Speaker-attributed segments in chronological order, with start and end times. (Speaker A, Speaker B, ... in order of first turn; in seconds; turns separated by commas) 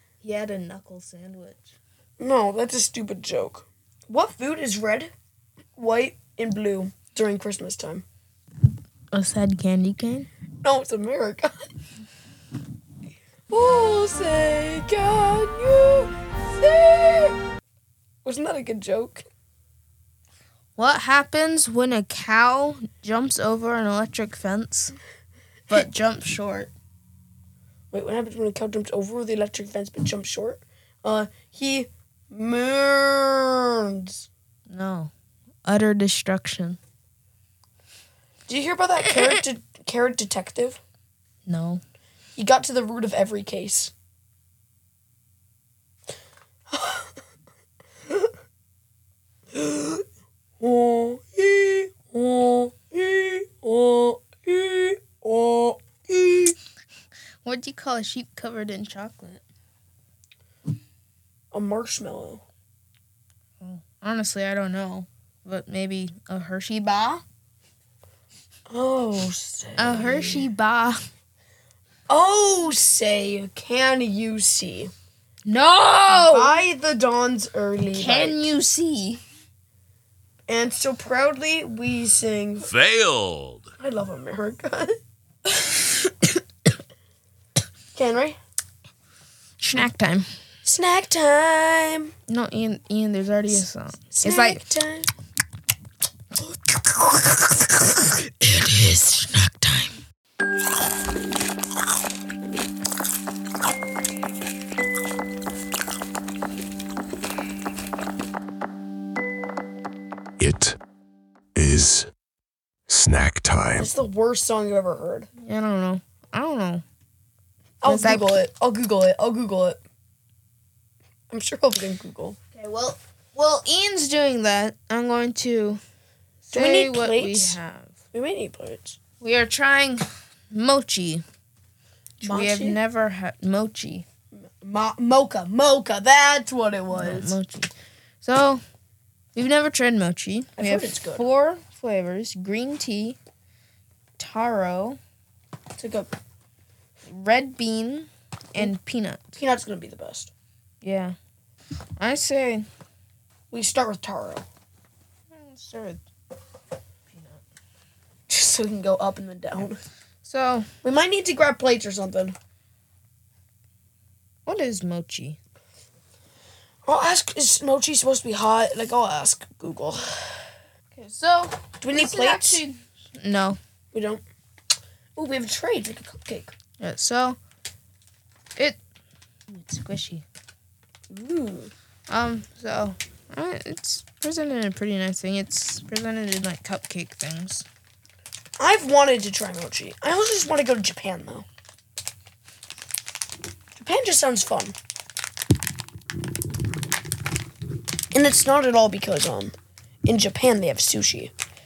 Speaker A: 0.2-1.7, Speaker B: 2.2-5.1, Speaker B: 5.8-8.0, Speaker A: 9.1-10.3, Speaker B: 10.6-11.5, Speaker B: 13.5-17.4, Speaker B: 18.2-19.2, Speaker A: 20.8-24.9, Speaker A: 25.7-26.7, Speaker B: 27.9-34.3, Speaker A: 34.7-35.1, Speaker A: 35.6-36.8, Speaker B: 38.5-40.8, Speaker A: 41.4-41.8, Speaker B: 42.4-43.9, Speaker B: 46.7-47.1, Speaker B: 49.5-50.0, Speaker B: 50.6-56.5, Speaker A: 57.4-59.4, Speaker B: 61.5-62.4, Speaker A: 63.6-67.2, Speaker B: 68.7-70.5, Speaker A: 69.8-71.0, Speaker B: 72.1-74.9, Speaker A: 75.4-76.6, Speaker B: 76.1-78.5, Speaker A: 77.9-79.2, Speaker B: 80.5-82.7, Speaker C: 82.6-83.7, Speaker B: 83.8-85.0, Speaker B: 87.9-88.4, Speaker A: 89.6-90.3, Speaker B: 90.6-92.1, Speaker A: 92.3-94.6, Speaker B: 94.1-95.1, Speaker A: 96.4-100.0, Speaker C: 110.4-110.8, Speaker C: 111.5-112.1, Speaker C: 112.9-113.9, Speaker B: 113.8-115.3, Speaker A: 115.4-116.8, Speaker B: 117.8-119.8, Speaker A: 117.8-118.4, Speaker B: 121.3-122.4, Speaker A: 122.5-125.8, Speaker A: 126.5-128.0, Speaker B: 126.5-127.6, Speaker B: 128.1-129.0, Speaker A: 129.2-131.2, Speaker B: 132.2-132.8, Speaker A: 132.2-134.1, Speaker B: 134.6-137.4, Speaker A: 136.9-138.6, Speaker A: 139.3-143.2, Speaker B: 140.6-141.2, Speaker A: 144.2-145.0, Speaker B: 145.8-146.1, Speaker A: 147.0-149.4, Speaker B: 149.4-150.3, Speaker A: 150.8-151.2, Speaker A: 152.0-152.7, Speaker B: 153.5-154.4, Speaker A: 155.3-156.0, Speaker A: 157.1-157.4, Speaker B: 158.3-159.8, Speaker A: 160.2-160.7, Speaker B: 160.8-162.3, Speaker A: 164.4-165.4, Speaker B: 166.8-170.5, Speaker A: 170.9-173.6, Speaker B: 171.8-172.6, Speaker B: 173.9-174.2, Speaker B: 175.2-176.5, Speaker A: 176.8-177.4, Speaker A: 178.6-178.8, Speaker A: 179.5-180.2, Speaker B: 181.1-181.7, Speaker A: 182.1-187.7, Speaker B: 188.6-191.4, Speaker B: 193.8-194.7, Speaker B: 198.1-199.5, Speaker B: 200.1-201.3